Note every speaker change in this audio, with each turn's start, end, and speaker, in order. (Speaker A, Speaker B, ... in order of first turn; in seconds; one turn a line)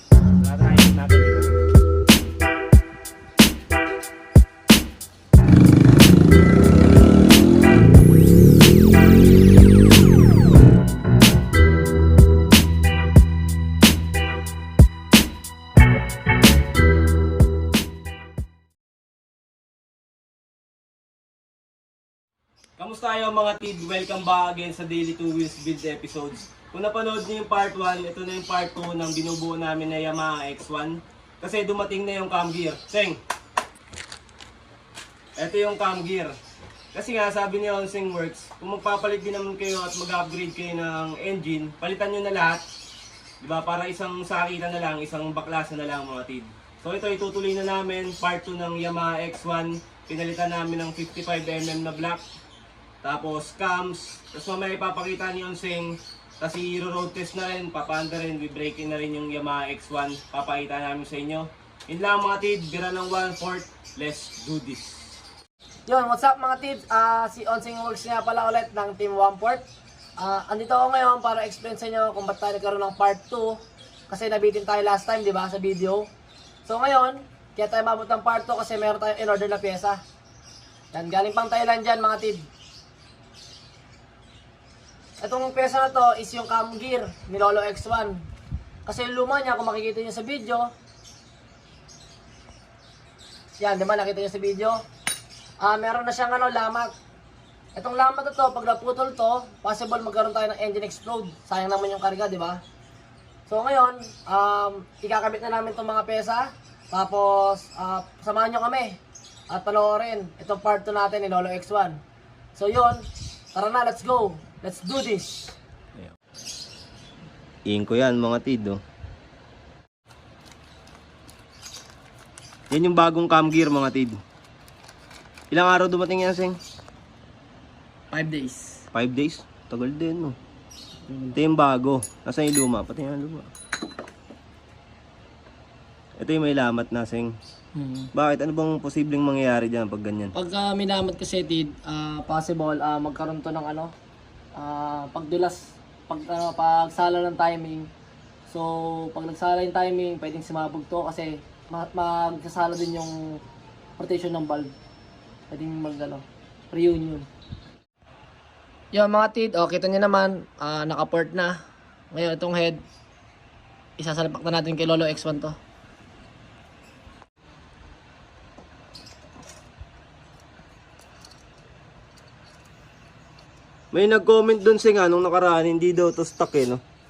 Speaker A: 0.4-1.6
Speaker A: 22.8-33.2
Speaker A: 35.4-36.3
Speaker A: 36.9-42.6
Speaker A: 43.4-52.2
Speaker A: 53.0-65.2
Speaker B: 65.9-69.6
Speaker B: 70.2-76.1
Speaker B: 76.7-80.0
Speaker B: 80.9-82.5
Speaker B: 85.2-88.2
Speaker B: 88.8-90.7
Speaker B: 93.6-94.8
Speaker B: 95.6-96.9
Speaker B: 97.8-102.6
Speaker B: 103.5-109.0
Speaker B: 109.5-112.0
Speaker B: 112.5-115.6
Speaker A: 117.7-118.8
Speaker A: 122.7-124.2
Speaker A: 125.5-126.6
Speaker B: 128.1-128.8
Speaker A: 128.9-130.4
Speaker B: 131.1-131.3
Speaker A: 131.3-133.5
Speaker A: 136.2-137.3
Speaker B: 137.8-138.1
Speaker A: 138.1-140.3
Speaker B: 140.3-143.9
Speaker B: 144.6-147.9
Speaker B: 148.5-153.2
Speaker B: 154.0-154.7
Speaker B: 155.5-157.3
Speaker B: 158.9-161.6
Speaker B: 162.1-162.8
Speaker B: 164.0-165.6
Speaker A: 173.9-176.8